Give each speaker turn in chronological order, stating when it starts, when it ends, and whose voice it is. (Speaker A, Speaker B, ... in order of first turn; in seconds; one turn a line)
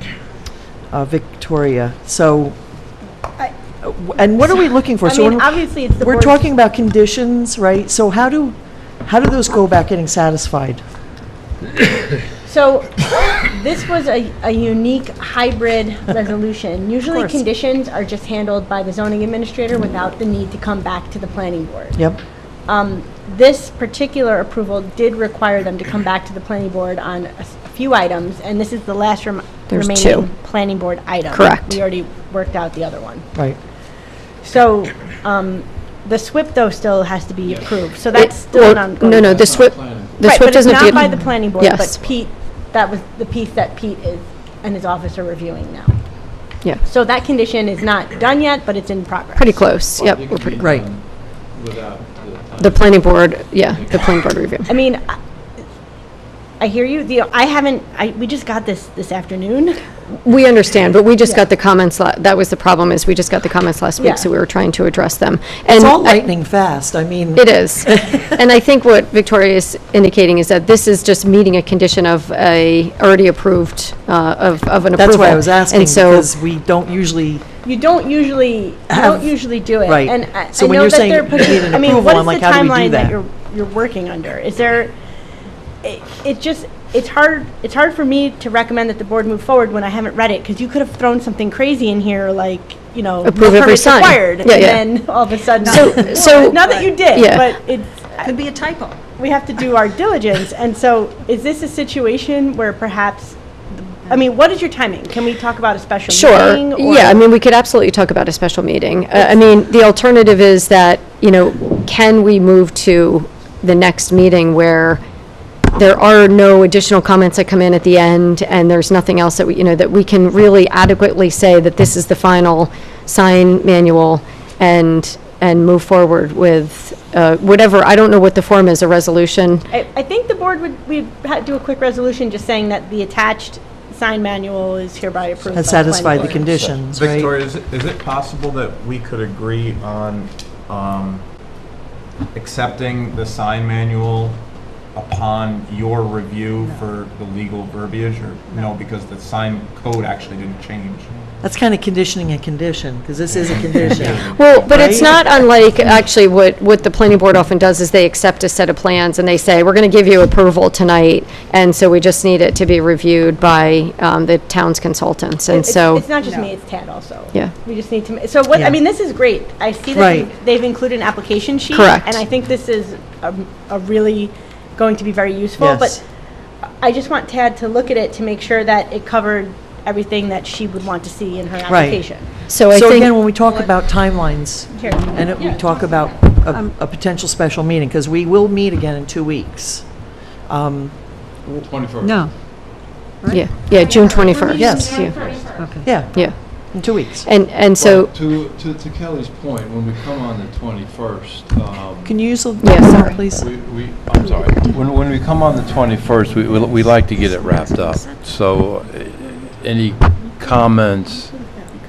Speaker A: 0.9-2.6
Speaker A: 3.8-10.8
Speaker B: 5.0-6.4
Speaker B: 12.4-22.0
Speaker A: 17.1-17.4
Speaker B: 22.7-33.3
Speaker C: 29.7-30.3
Speaker C: 31.3-31.8
Speaker B: 34.4-39.5
Speaker C: 38.1-41.9
Speaker D: 39.1-40.4
Speaker B: 40.2-46.0
Speaker B: 46.9-49.6
Speaker C: 49.4-50.6
Speaker D: 50.0-54.2
Speaker A: 50.6-50.9
Speaker C: 52.6-54.7
Speaker B: 54.7-55.2
Speaker B: 56.6-59.8
Speaker C: 60.2-66.2
Speaker B: 64.0-64.3
Speaker A: 65.7-68.3
Speaker C: 67.4-76.3
Speaker A: 75.0-77.4
Speaker B: 77.6-85.0
Speaker A: 78.9-83.2
Speaker B: 85.8-98.3
Speaker C: 93.2-94.9
Speaker E: 95.6-96.9
Speaker C: 95.6-97.5
Speaker E: 98.2-99.0
Speaker B: 99.2-107.2
Speaker C: 106.1-115.0
Speaker C: 115.7-129.7
Speaker B: 129.7-136.5
Speaker A: 135.5-137.3
Speaker F: 136.0-141.2
Speaker F: 142.3-151.1
Speaker A: 151.4-155.2
Speaker F: 153.7-155.1
Speaker C: 154.3-166.1
Speaker B: 165.5-176.0
Speaker E: 166.2-166.5
Speaker A: 169.9-170.3
Speaker C: 171.7-172.2
Speaker A: 175.6-176.0
Speaker B: 176.7-182.3
Speaker A: 181.7-191.6
Speaker C: 182.5-183.2
Speaker B: 184.8-185.1
Speaker E: 184.9-185.3
Speaker D: 191.6-192.2
Speaker E: 192.0-192.3
Speaker E: 193.2-193.5
Speaker C: 193.3-195.4
Speaker A: 194.5-195.1
Speaker B: 195.2-195.5
Speaker E: 195.6-195.9
Speaker A: 195.8-197.3
Speaker C: 196.1-198.2
Speaker D: 197.7-202.2
Speaker A: 202.0-203.5
Speaker C: 202.6-203.2
Speaker D: 203.3-211.5